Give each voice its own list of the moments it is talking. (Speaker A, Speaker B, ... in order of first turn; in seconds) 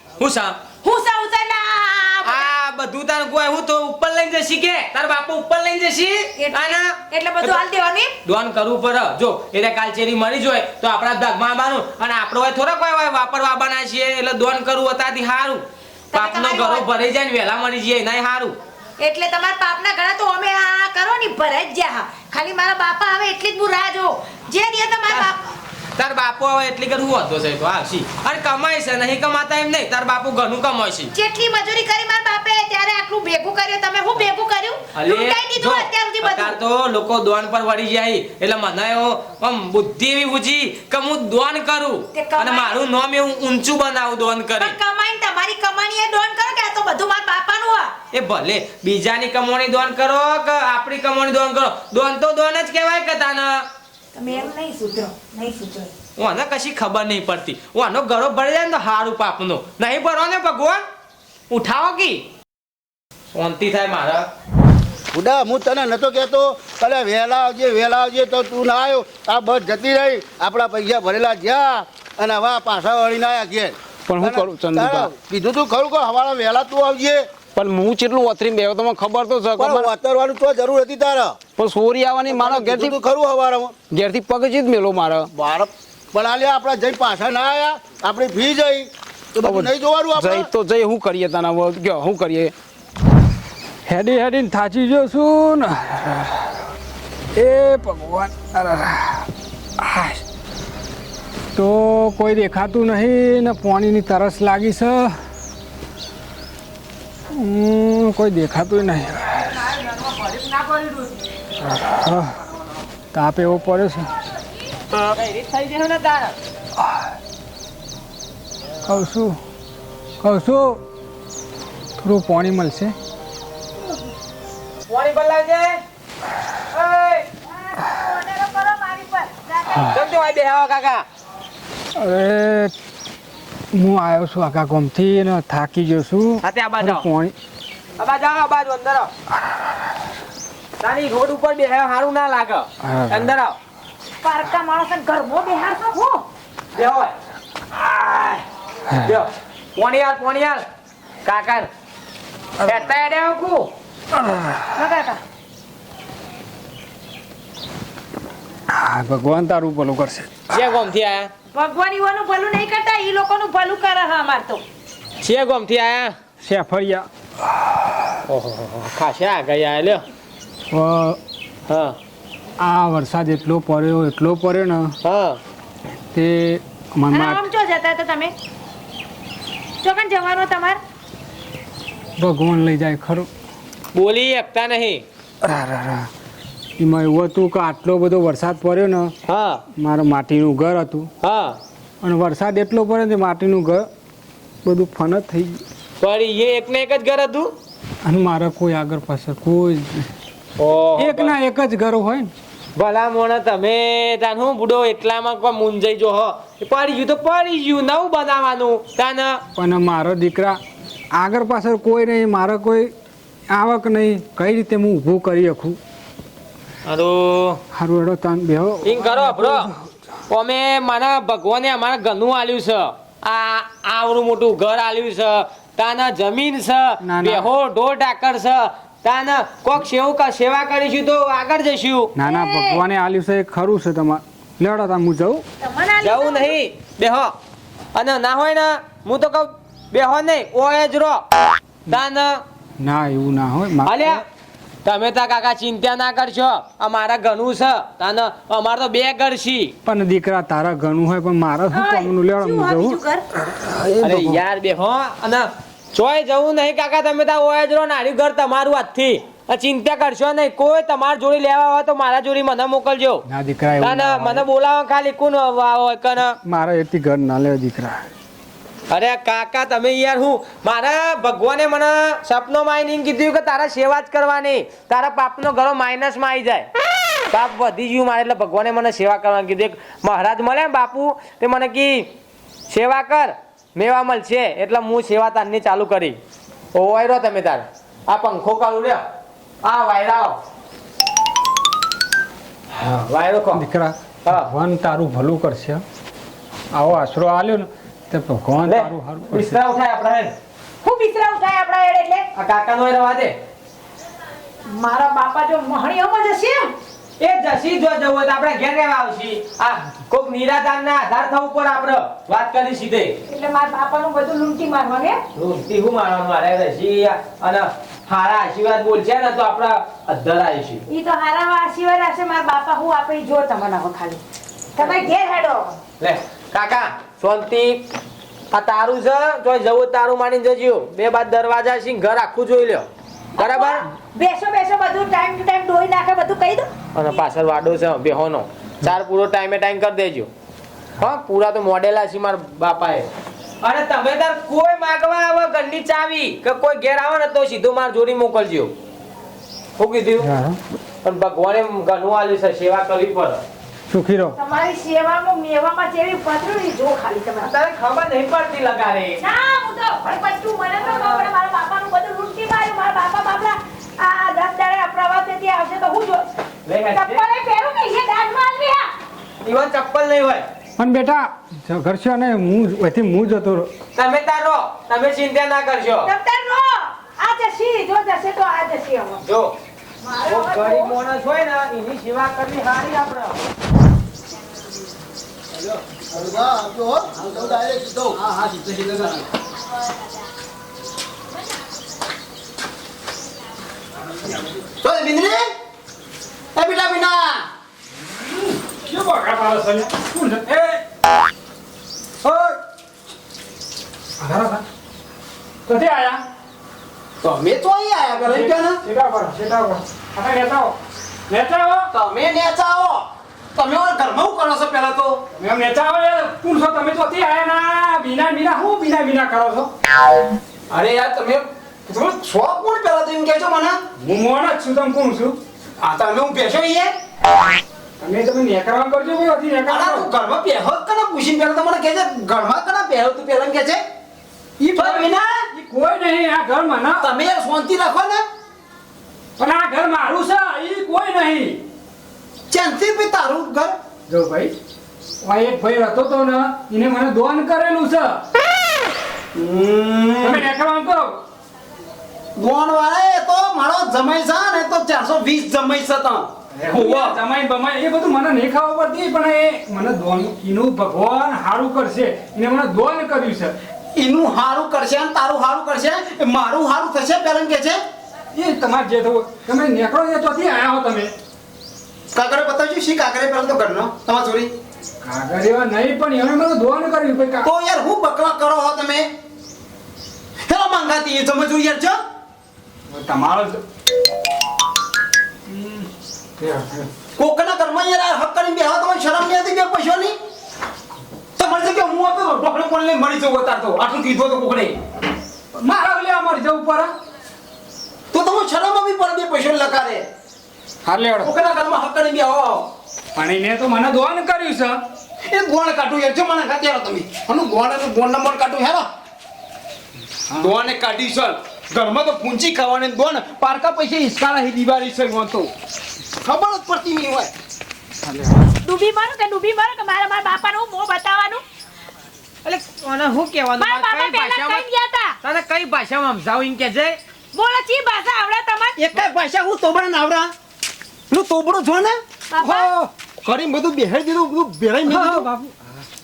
Speaker A: 0.2-0.6, 2.2-7.6, 8.2-18.6, 26.0-31.1, 34.9-44.8, 48.1-53.6, 56.2-60.8, 61.5-62.2, 63.3-64.3, 109.5-111.2, 114.9-116.3, 124.9-125.8, 126.7-127.3, 129.9-131.0, 136.4-137.1, 138.0-139.1, 140.8-143.6, 146.7-147.1, 149.0-150.6, 151.2-151.7, 152.6-153.7, 160.5-161.3, 165.2-166.1, 168.3-170.0, 171.7-172.0, 175.0-175.4, 183.9-185.0, 189.3-189.6, 191.2-191.6, 196.0-197.5, 200.6-201.3, 202.8-209.4, 216.8-217.6, 218.8-219.7, 220.3-232.1, 236.0-237.3, 237.9-241.2, 241.9-242.4, 243.8-244.2, 244.8-249.7, 254.0-263.2, 263.8-266.4, 268.9-276.7, 277.3-282.1, 282.7-286.2, 286.7-289.0, 289.6-290.4, 292.7-293.6, 298.6-300.3, 302.3-303.3, 307.2-313.2, 315.3-320.8, 324.8-325.1, 326.0-327.9, 328.5-332.9, 333.4-333.8, 336.9-340.3, 341.0-343.1, 343.6-348.7, 349.8-350.3, 351.0-353.4, 357.4-359.2, 360.8-361.3, 366.7-367.2, 369.4-370.4, 373.9-376.1, 379.2-379.5, 380.3-383.4, 522.4-524.6, 525.2-527.0
Speaker B: 0.8-2.5, 6.4-8.1, 16.1-16.8, 19.0-25.4, 31.1-36.5, 42.1-42.8, 44.6-47.9, 54.1-55.9, 127.5-130.1, 144.2-146.2, 154.8-155.2, 161.5-164.6, 177.1-178.3, 179.8-180.8, 232.2-232.8, 235.6-236.6, 251.7-253.2, 300.8-302.3, 304.7-306.7, 313.3-315.2, 320.9-324.2, 324.8-325.8, 333.4-336.7, 354.4-357.5, 359.2-366.2, 366.9-368.9, 376.0-379.2, 380.0-380.9, 518.6-521.4, 523.6-525.1, 527.3-529.0, 532.3-532.7
Speaker C: 65.1-77.3, 79.5-81.4, 82.3-83.8, 85.3-90.5, 385.5-388.2
Speaker D: 74.1-75.1, 77.5-79.9, 81.6-83.0, 83.9-85.3, 89.4-92.5, 388.1-389.2, 394.7-395.4, 396.6-397.4, 402.2-402.6, 407.2-408.8, 411.9-415.3, 420.7-423.8, 425.8-426.9, 429.7-433.8, 434.6-435.4, 437.0-438.2, 442.5-443.7, 449.3-450.5, 452.4-457.2, 463.9-467.8, 472.1-474.5, 477.4-479.1, 480.4-482.0, 487.2-490.1, 491.4-494.7, 498.1-500.0, 501.2-502.7, 505.2-508.9, 510.4-515.5, 516.2-517.3, 528.8-530.3, 531.1-532.7, 533.2-535.3
Speaker E: 93.8-96.5, 97.3-99.3, 99.8-100.2, 101.5-105.2, 107.3-109.6, 111.6-112.4, 113.1-114.2, 118.8-119.4, 120.2-120.8, 122.0-122.9, 131.9-132.7, 133.7-137.3, 142.8-143.3, 147.8-148.4, 154.1-154.7, 158.7-160.4, 166.4-167.1, 170.7-171.2, 172.6-174.9, 176.1-177.5, 182.2-183.3, 185.4-186.1, 186.8-189.1, 189.8-191.1, 192.0-193.9, 194.6-195.6, 198.0-200.1, 201.0-202.3, 209.6-210.6, 211.1-212.9, 213.5-215.8, 217.7-219.9, 227.0-227.5, 232.2-235.4, 242.8-244.2, 249.8-254.3, 263.3-264.4, 266.4-268.1, 293.5-295.8, 296.7-299.6, 350.2-350.6, 353.9-354.4, 370.8-373.7, 398.3-400.8, 404.2-404.6, 405.6-406.2, 408.2-410.8, 411.3-411.9, 415.4-419.7, 424.0-425.4, 428.0-430.1, 434.7-437.1, 439.4-441.6, 444.1-444.5, 445.2-448.2, 450.2-451.2, 456.6-463.6, 468.3-471.1, 475.0-477.5, 482.9-483.6, 485.5-486.9, 495.5-496.9, 500.9-501.3, 503.1-504.8, 518.0-518.4, 534.9-535.6